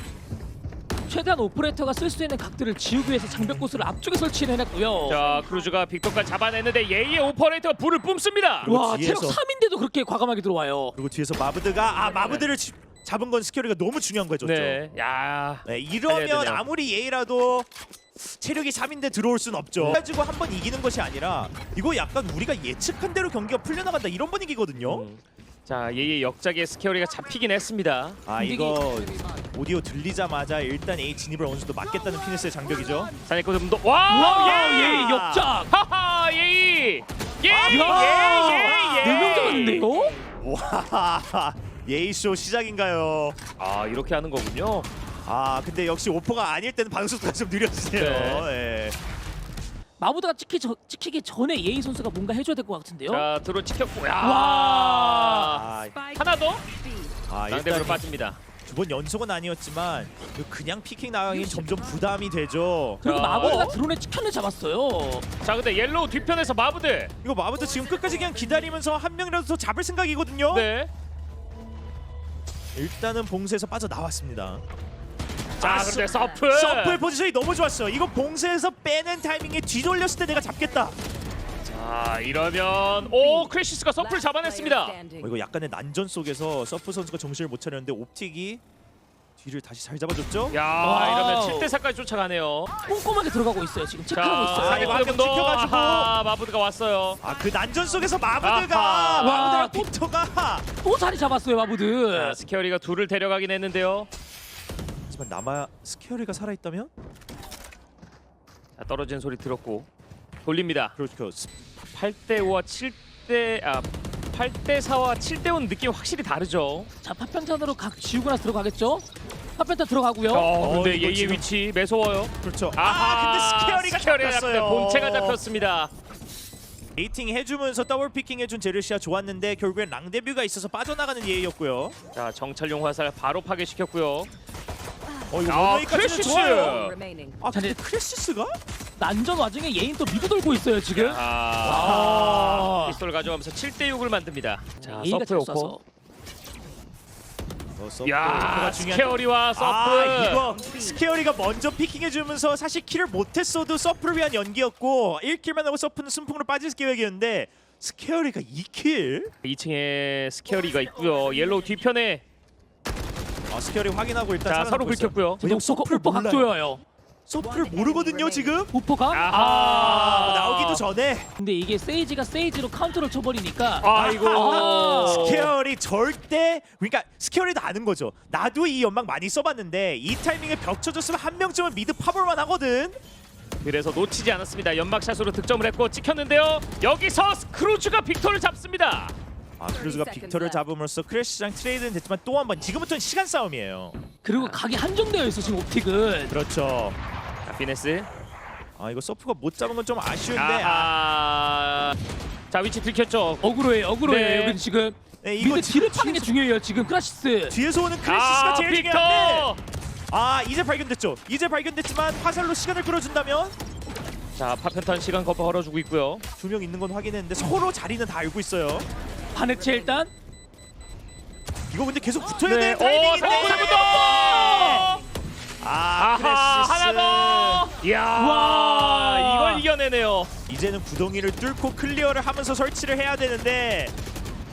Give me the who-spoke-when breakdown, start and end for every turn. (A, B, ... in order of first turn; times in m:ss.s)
0:01.1-0:05.2 A
0:05.1-0:08.7 B
0:08.6-0:09.4 C
0:08.7-0:11.0 A
0:11.0-0:14.8 C
0:12.2-0:12.5 B
0:14.4-0:16.6 B
0:15.6-0:25.1 C
0:24.8-0:28.2 B
0:28.3-0:33.1 C
0:28.4-0:28.8 A
0:33.2-0:35.1 B
0:34.1-0:35.7 A
0:34.5-0:35.5 C
0:35.7-0:39.9 B
0:37.5-0:39.7 C
0:37.7-0:40.2 A
0:40.4-0:43.4 C
0:43.6-0:44.9 B
0:45.2-0:49.0 C
0:47.9-0:48.5 B
0:50.0-0:53.3 A
0:53.1-0:56.6 B
0:54.2-0:55.5 A
0:55.5-0:56.0 C
0:56.0-0:57.2 D
0:57.3-0:58.1 C
0:57.5-0:58.4 B
0:58.6-1:03.0 C
1:03.0-1:03.8 B
1:03.0-1:05.3 A
1:05.4-1:07.1 B
1:07.2-1:10.7 C
1:10.5-1:10.9 B
1:12.8-1:14.6 C
1:15.6-1:21.0 C
1:15.6-1:17.0 B
1:21.6-1:25.0 B
1:23.1-1:25.3 D
1:25.2-1:28.6 C
1:29.4-1:30.6 C
1:30.5-1:32.7 B
1:30.8-1:31.7 A
1:32.8-1:35.0 A
1:34.1-1:37.2 B
1:34.5-1:36.1 C
1:37.2-1:40.6 C
1:38.4-1:39.5 B
1:39.2-1:39.9 A
1:40.8-1:42.4 A
1:42.1-1:44.1 B
1:45.1-1:46.9 C
1:48.8-1:49.9 B
1:50.4-1:51.0 B
1:51.0-1:51.5 C
1:52.0-1:56.9 B
1:57.0-2:00.5 A
2:00.3-2:05.9 B
2:00.6-2:01.5 C
2:02.4-2:05.4 C
2:07.0-2:12.0 C
2:12.2-2:14.3 B
2:15.3-2:16.8 C
2:15.5-2:17.0 B
2:16.1-2:17.4 D
2:17.4-2:18.6 C
2:17.5-2:17.8 A
2:19.0-2:23.0 A
2:20.9-2:25.8 B
2:21.6-2:22.8 C
2:24.8-2:25.8 A
2:27.8-2:39.3 C
2:28.0-2:30.5 B
2:39.4-2:42.2 B
2:43.5-2:46.5 C
2:44.5-2:45.4 B
2:45.4-2:46.8 A
2:47.3-2:48.7 C
2:47.4-2:48.6 D
2:48.7-2:50.0 A
2:49.1-2:50.8 B
2:49.5-2:51.3 C
2:51.4-2:55.4 A
2:53.8-2:55.5 B
2:53.9-3:03.0 C
3:03.6-3:09.2 B
3:09.6-3:14.0 C
3:09.7-3:10.6 D
3:14.2-3:16.4 A
3:16.3-3:17.0 C
3:17.4-3:18.1 B
3:18.8-3:20.9 C
3:20.3-3:22.0 B
3:22.5-3:23.5 B
3:23.4-3:27.6 A
3:24.0-3:24.6 B
3:25.2-3:26.3 C
3:27.5-3:29.5 C
3:28.0-3:29.6 B
3:30.1-3:33.6 C
3:34.4-3:36.2 B
3:36.4-3:38.9 C
3:39.3-3:40.1 A
3:41.7-3:44.9 C
3:42.4-3:45.0 B
3:43.2-3:44.9 A
3:45.6-3:47.7 C
3:46.0-3:50.3 B
3:48.2-3:49.6 A
3:50.5-3:53.9 C